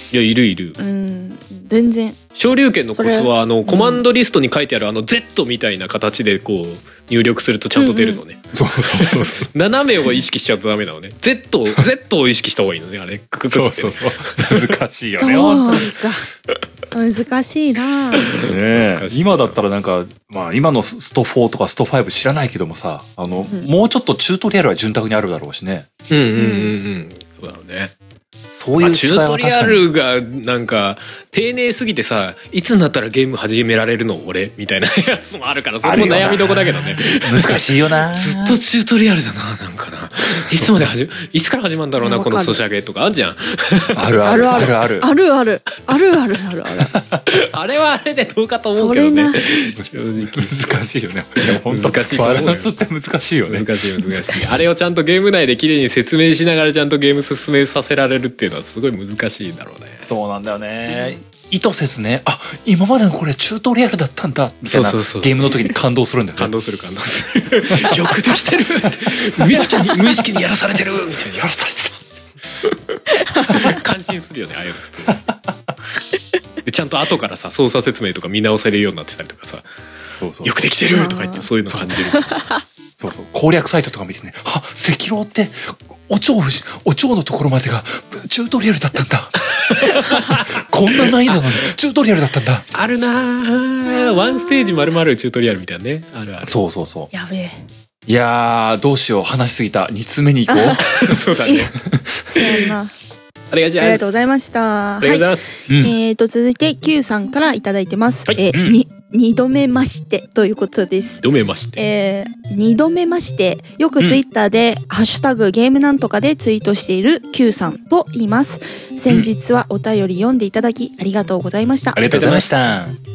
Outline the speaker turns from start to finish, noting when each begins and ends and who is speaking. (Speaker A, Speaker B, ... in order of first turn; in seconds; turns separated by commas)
Speaker A: 0.1-0.8, Speaker B: 0.8-2.2, Speaker A: 2.3-14.8, Speaker B: 2.9-4.0, Speaker B: 7.8-8.2, Speaker C: 8.5-9.5, Speaker C: 13.5-15.9, Speaker B: 15.2-16.2, Speaker B: 16.9-18.3, Speaker A: 18.2-19.6, Speaker C: 18.4-25.9, Speaker A: 26.1-27.9, Speaker B: 26.4-26.7, Speaker C: 28.5-29.9, Speaker A: 28.8-44.7, Speaker C: 35.8-38.6, Speaker B: 42.0-42.6, Speaker C: 43.9-45.1, Speaker B: 44.2-47.0, Speaker A: 47.3-50.8, Speaker B: 48.6-49.4, Speaker C: 49.8-53.7, Speaker A: 51.4-52.7, Speaker A: 53.5-60.1, Speaker B: 54.0-54.6, Speaker C: 60.0-66.5, Speaker A: 64.7-65.7, Speaker A: 66.4-71.5, Speaker C: 69.4-70.2, Speaker C: 71.3-72.2, Speaker B: 73.3-73.6, Speaker A: 73.4-75.2, Speaker C: 75.1-75.7, Speaker A: 76.6-79.7, Speaker C: 80.2-80.5, Speaker A: 80.4-82.2, Speaker B: 80.9-81.5, Speaker C: 81.7-81.9, Speaker B: 82.1-82.6, Speaker C: 83.0-89.4, Speaker A: 89.5-90.5, Speaker C: 90.1-92.6, Speaker A: 91.3-91.7, Speaker A: 92.7-96.6, Speaker C: 96.4-97.1, Speaker B: 97.1-97.6, Speaker C: 98.1-101.2, Speaker B: 100.5-100.8, Speaker A: 101.0-101.7, Speaker B: 101.4-101.7, Speaker C: 101.9-102.2, Speaker B: 102.3-102.9, Speaker A: 103.5-104.1, Speaker B: 103.8-111.2, Speaker A: 105.0-105.5, Speaker C: 105.7-105.9, Speaker A: 111.2-111.8, Speaker B: 111.8-122.0, Speaker C: 121.9-123.0, Speaker A: 122.0-122.8